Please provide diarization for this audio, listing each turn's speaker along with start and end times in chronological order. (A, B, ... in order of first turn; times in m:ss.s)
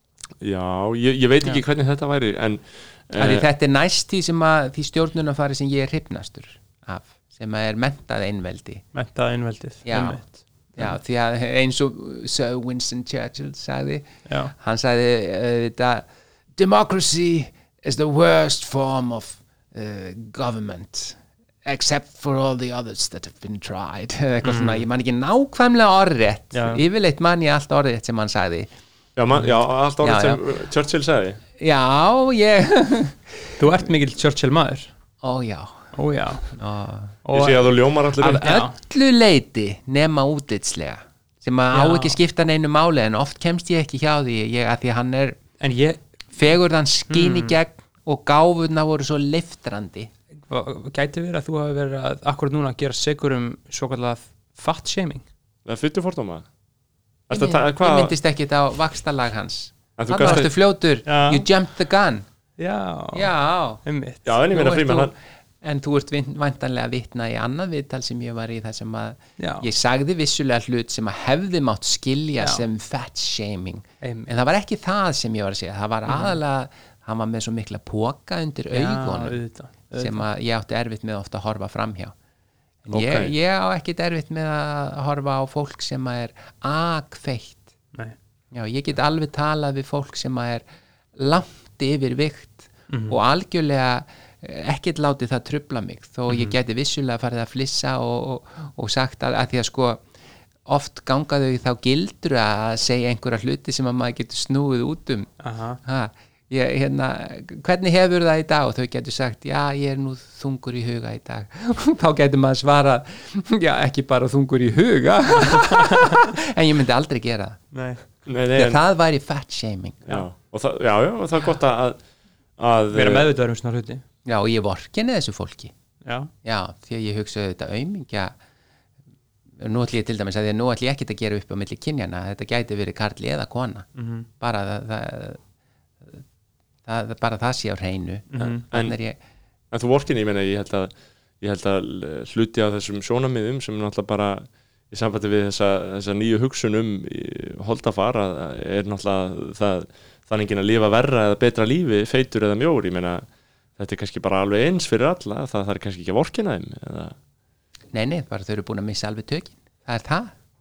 0:00.4-0:03.5 A
0:03.2-0:08.8 B
0:08.9-0:10.9 C
0:09.8-0:10.2 B
0:10.7-0:28.7 B
0:14.3-0:14.5 C
0:24.4-0:24.8 C
0:26.5-0:26.8 C
0:29.2-0:31.4 A
0:30.0-0:30.4 B
0:31.6-0:33.2 B
0:33.6-0:34.9 C
0:35.2-0:35.9 B
0:35.9-0:36.6 C
0:36.5-0:37.2 B
0:37.2-0:38.7 C
0:37.3-0:38.6 A
0:38.2-0:45.4 B
0:41.7-0:42.2 C
0:45.6-0:46.0 C
0:46.3-0:50.1 B
0:47.1-0:47.6 C
0:50.5-0:55.2 C
0:55.6-0:56.4 A
0:57.3-0:58.2 A
0:57.3-1:02.2 B
1:00.0-1:00.5 A
1:00.2-1:00.5 C
1:01.0-1:01.5 C
1:02.6-1:03.3 C
1:03.1-1:03.8 B
1:03.8-1:04.2 C
1:04.2-1:05.1 A
1:04.5-1:19.4 B
1:09.4-1:09.6 C
1:12.4-1:12.6 C
1:14.0-1:14.3 C
1:16.1-1:16.4 C
1:18.7-1:20.2 C
1:20.0-1:22.1 B
1:22.8-1:27.7 B
1:22.9-1:23.3 A
1:28.5-1:30.6 B
1:31.2-1:40.0 B
1:32.9-1:33.2 C
1:36.3-1:36.6 C
1:40.6-1:45.3 B
1:45.4-1:45.8 C
1:45.8-1:57.6 B
1:55.5-1:56.3 C
1:57.7-1:58.0 C
1:58.2-1:58.8 A
1:58.5-2:00.1 B
2:00.1-2:02.0 A
2:02.6-2:03.3 A
2:02.9-2:04.0 C
2:04.2-2:05.7 B
2:06.0-2:06.3 C
2:06.4-2:08.3 B
2:09.6-2:13.9 B
2:14.0-2:14.3 C
2:14.4-2:15.4 B
2:16.8-2:19.2 B
2:18.3-2:18.6 C
2:19.7-2:33.2 A
2:33.8-2:37.1 A
2:37.9-2:40.3 B